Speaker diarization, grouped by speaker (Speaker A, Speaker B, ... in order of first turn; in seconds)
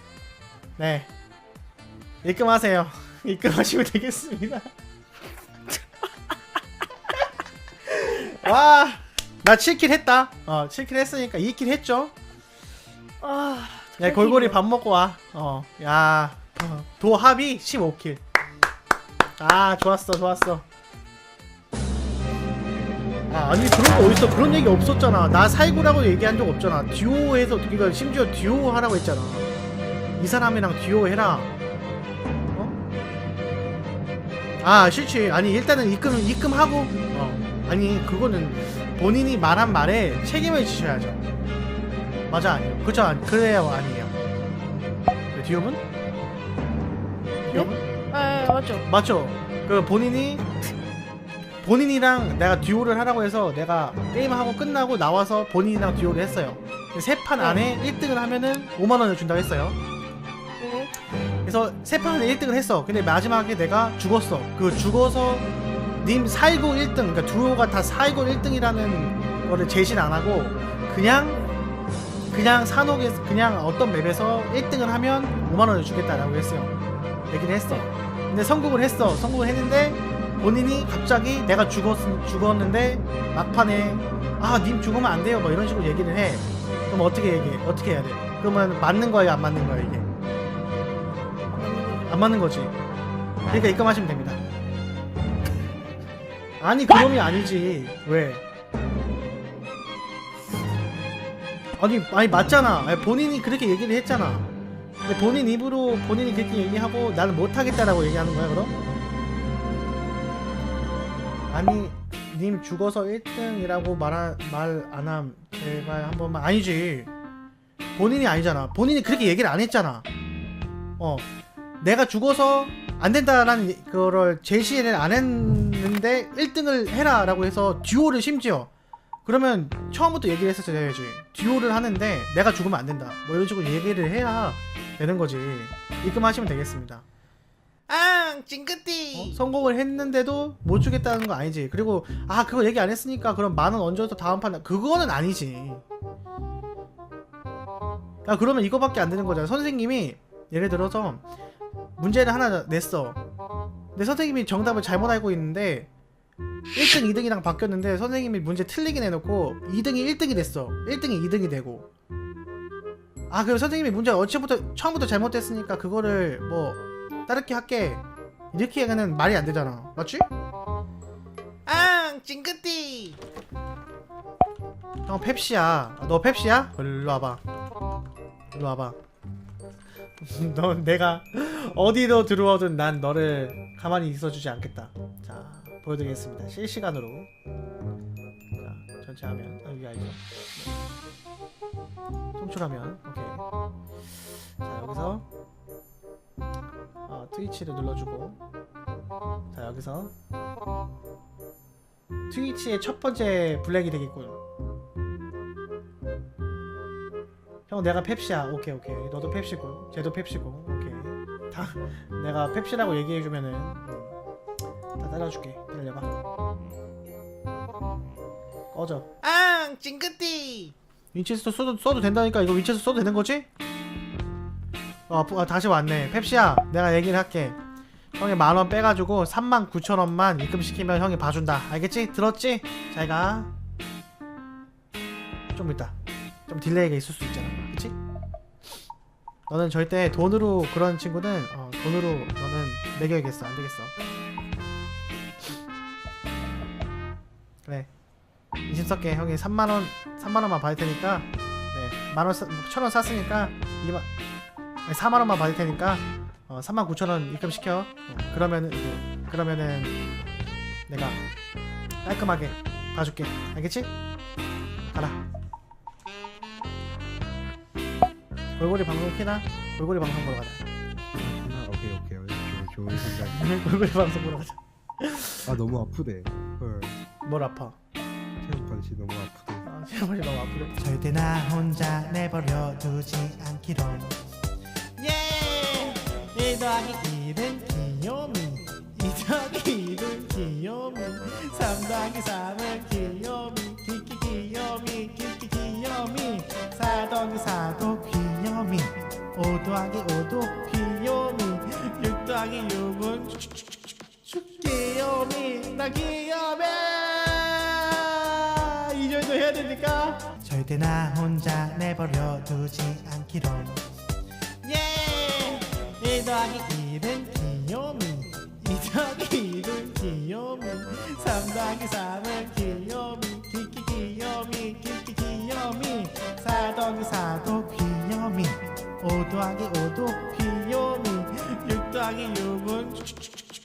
Speaker A: 0.8-1.1, 2.2-4.7, 7.8-12.1, 14.0-18.2, 19.4-20.6, 23.3-29.5, 30.2-31.5, 34.6-41.2, 42.3-44.1, 45.3-45.8, 47.5-47.8, 48.9-50.5, 51.6-59.8, 61.4-65.5, 66.0-71.4, 72.3-76.7, 77.3-90.1, 92.1-92.7, 93.5-94.4, 96.6-98.4, 101.8-104.5, 105.0-108.8, 111.5-117.1, 118.0-120.0, 121.0-121.3, 121.8-128.7, 129.2-137.0, 139.1-145.8, 148.2-151.2, 152.0-153.2, 153.9-155.9, 156.7-161.9, 163.3-170.3, 175.1-177.4, 178.5-179.0, 180.2-187.3, 188.6-190.8, 192.4-193.4, 194.6-195.2, 197.1-198.4, 199.5-200.1, 202.3-204.4, 207.7-214.2, 215.0-216.1, 218.7-219.1, 221.1-223.5, 225.1-227.6, 228.2-233.5, 235.5-235.9, 236.5-237.9, 239.5-243.9, 247.6-247.9, 248.7-254.1, 254.8-260.0, 260.9-261.2, 262.0-263.9, 264.9-265.2, 268.6-270.6, 273.0-275.5, 277.2-277.8, 279.6-284.1, 286.3-303.5, 304.2-307.3, 307.9-313.8, 316.0-333.3
Speaker B: 13.2-14.6, 47.5-48.8, 57.4-57.6, 60.6-60.9, 91.5-92.1
Speaker C: 137.9-139.4, 171.7-173.2, 219.2-220.7, 285.0-286.0, 314.6-315.8
Speaker D: 271.1-273.5, 275.5-277.0, 278.4-279.7